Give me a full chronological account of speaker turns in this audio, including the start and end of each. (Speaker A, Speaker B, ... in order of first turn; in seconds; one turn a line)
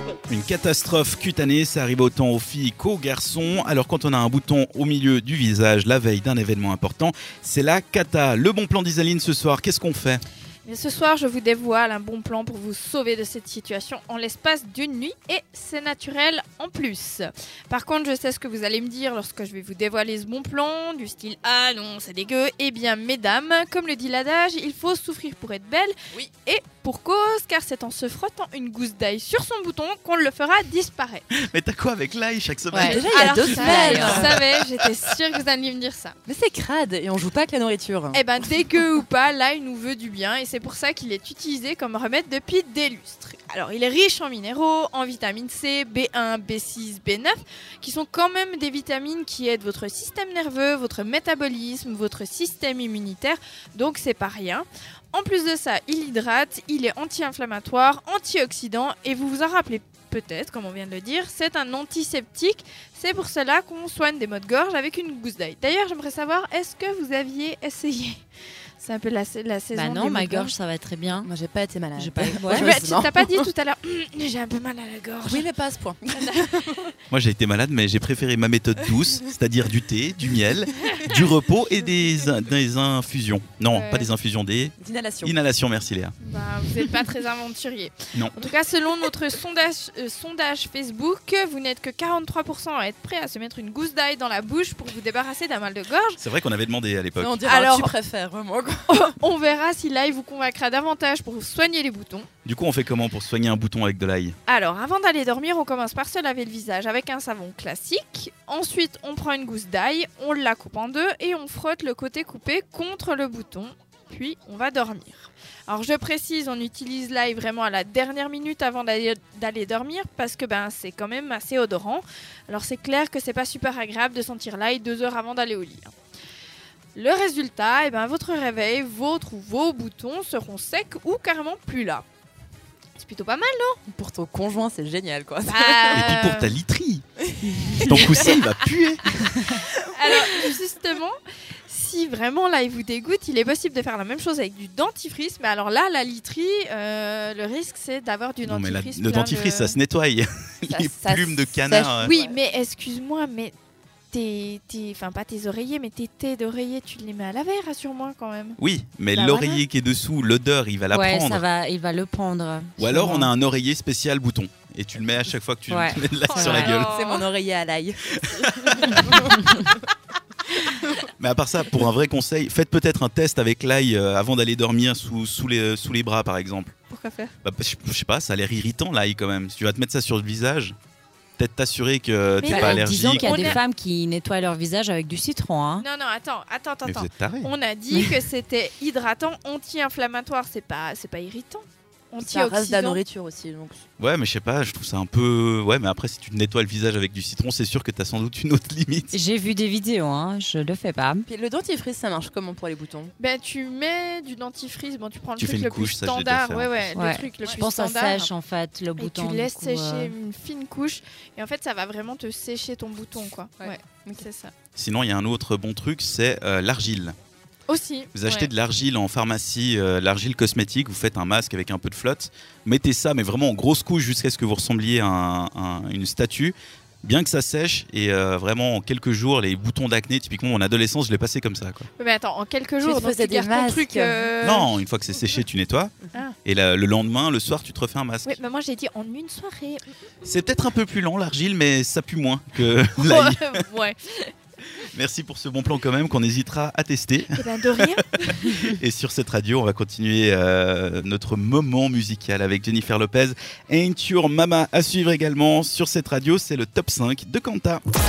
Speaker A: 0.3-10.2
Speaker B: 10.7-31.3
Speaker A: 31.3-33.1
Speaker C: 32.7-34.4
Speaker B: 32.7-36.2
Speaker D: 33.2-34.3
Speaker A: 33.6-34.6
Speaker C: 36.3-38.2
Speaker B: 38.1-68.2
Speaker B: 68.8-70.5
Speaker D: 69.7-71.3
Speaker C: 69.9-70.2
Speaker C: 71.2-73.5
Speaker D: 72.0-72.7
Speaker B: 72.4-75.5
Speaker C: 75.2-76.8
Speaker B: 76.2-76.8
Speaker A: 77.1-86.2
Speaker B: 83.7-84.1
Speaker C: 84.8-85.3
Speaker B: 86.2-96.2
Speaker A: 96.2-97.3
Speaker C: 97.2-99.1
Speaker B: 97.4-97.9
Speaker B: 98.9-102.3
Speaker A: 102.5-104.4
Speaker B: 104.5-125.9
Speaker B: 126.9-132.0
Speaker B: 133.0-133.8
Speaker C: 133.9-136.1
Speaker B: 135.4-136.6
Speaker A: 135.9-137.1
Speaker C: 137.3-138.3
Speaker A: 137.8-139.1
Speaker B: 138.0-138.5
Speaker B: 139.9-149.8
Speaker A: 148.4-152.1
Speaker B: 150.7-153.5
Speaker B: 154.1-158.6
Speaker A: 158.6-161.4
Speaker C: 159.2-159.5
Speaker D: 160.9-163.3
Speaker A: 162.8-166.9
Speaker D: 165.7-166.8
Speaker B: 166.2-167.3
Speaker C: 166.4-168.0
Speaker A: 168.2-169.0
Speaker C: 168.8-169.3
Speaker A: 171.2-176.7
Speaker C: 176.9-177.3
Speaker A: 177.4-180.8
Speaker A: 181.4-183.6
Speaker D: 182.4-185.9
Speaker B: 182.4-183.6
Speaker B: 185.8-193.0
Speaker A: 186.9-187.5
Speaker C: 192.2-193.8
Speaker A: 194.0-199.2
Speaker D: 199.1-201.3
Speaker C: 201.3-203.1
Speaker B: 203.2-208.3
Speaker A: 205.4-206.9
Speaker D: 206.9-210.1
Speaker B: 209.0-214.5
Speaker C: 213.6-214.2
Speaker A: 214.8-217.2
Speaker B: 217.7-218.5
Speaker A: 218.1-231.9
Speaker B: 232.0-234.8
Speaker C: 232.8-234.3
Speaker A: 234.4-235.9
Speaker A: 236.4-238.4
Speaker B: 238.2-239.8
Speaker A: 240.2-243.6
Speaker B: 243.0-244.3
Speaker A: 244.8-257.8
Speaker B: 247.3-248.5